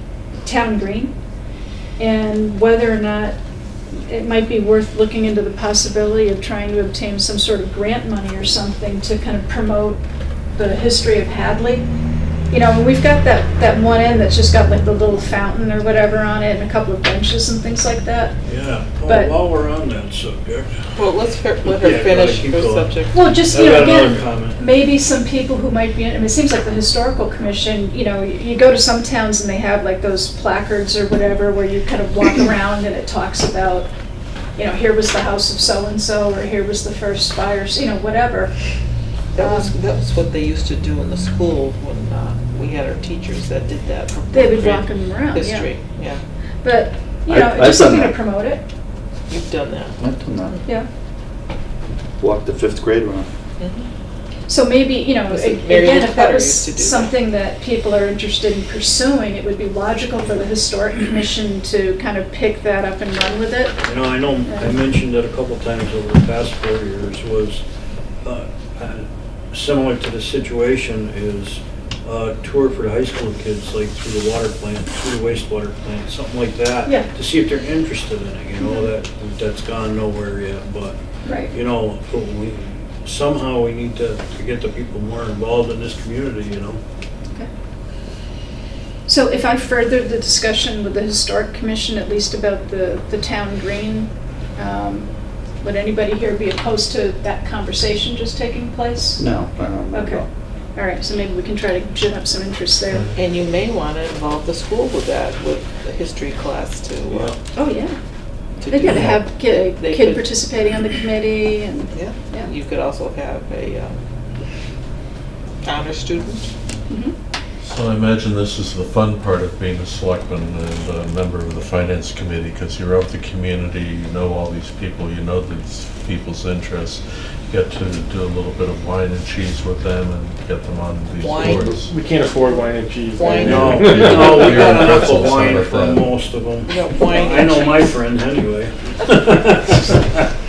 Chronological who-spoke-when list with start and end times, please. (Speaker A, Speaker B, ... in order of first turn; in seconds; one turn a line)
Speaker A: 0.4-1.1
Speaker A: 2.0-3.4
Speaker A: 4.1-10.0
Speaker A: 10.5-11.8
Speaker A: 12.5-18.4
Speaker B: 18.4-20.7
Speaker A: 19.0-19.3
Speaker C: 20.9-24.0
Speaker B: 21.6-23.0
Speaker A: 23.1-33.9
Speaker B: 23.5-24.6
Speaker A: 34.6-38.5
Speaker C: 39.3-46.2
Speaker A: 39.4-39.7
Speaker A: 44.3-45.7
Speaker A: 46.6-48.6
Speaker D: 47.3-48.1
Speaker C: 49.3-50.6
Speaker D: 50.0-50.6
Speaker D: 52.2-53.3
Speaker C: 53.6-53.9
Speaker A: 54.5-63.8
Speaker C: 55.3-57.1
Speaker B: 63.8-67.6
Speaker A: 64.5-64.7
Speaker B: 68.2-81.0
Speaker A: 78.6-78.9
Speaker A: 81.2-81.5
Speaker B: 81.5-86.8
Speaker A: 89.1-99.2
Speaker D: 99.2-100.3
Speaker A: 99.9-100.2
Speaker A: 100.7-103.1
Speaker C: 103.1-107.3
Speaker B: 107.1-107.3
Speaker A: 107.5-108.0
Speaker C: 108.6-110.3
Speaker A: 108.7-112.5
Speaker C: 111.9-114.0
Speaker C: 115.6-116.4
Speaker A: 116.9-117.1
Speaker E: 117.6-131.9
Speaker C: 131.2-131.7
Speaker F: 131.7-134.4
Speaker C: 133.1-135.4
Speaker B: 133.4-140.2
Speaker E: 133.5-136.1
Speaker C: 136.6-138.0